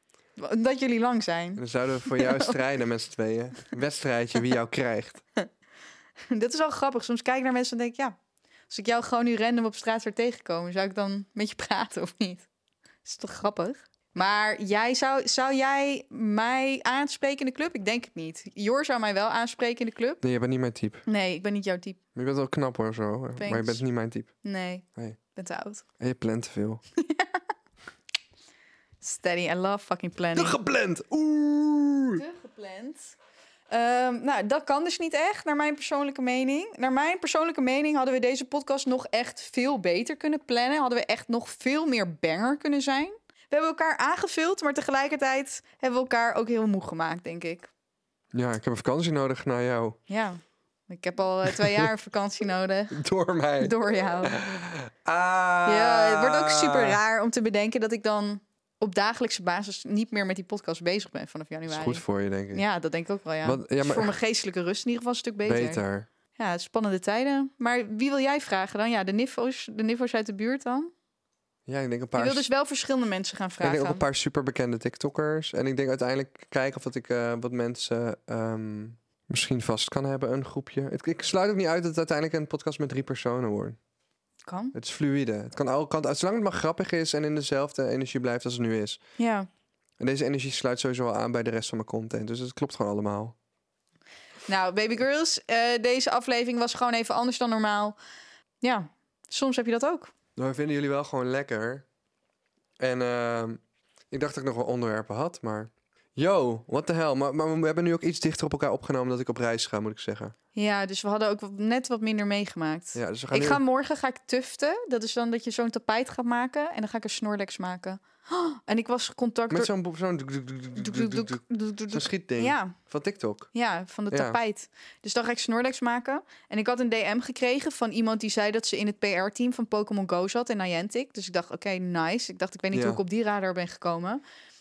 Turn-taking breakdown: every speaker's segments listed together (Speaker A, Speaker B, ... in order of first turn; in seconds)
Speaker A: 0.4-2.5, 6.3-8.2, 8.7-12.5, 13.1-20.2, 21.1-22.0, 23.4-23.8, 24.4-25.9, 27.0-27.4, 29.0-30.6, 32.2-33.1, 33.7-47.7, 50.1-53.0, 53.6-54.5, 55.6-65.8, 66.4-70.9, 72.2-74.0, 84.5-84.8, 89.2-89.5, 94.5-98.0, 98.6-100.1, 110.5-119.7, 120.8-122.8, 123.5-134.2
Speaker B: 1.6-5.2, 20.2-21.0, 22.1-24.3, 26.0-26.8, 30.4-32.2, 48.3-50.0, 52.9-57.0, 61.7-62.6, 63.4-64.1, 65.5-66.1, 71.7-72.5, 73.6-83.8, 84.7-89.0, 90.0-93.3, 100.4-101.8, 102.8-110.3, 113.0-113.6, 119.5-123.5, 124.1-124.4, 132.7-133.0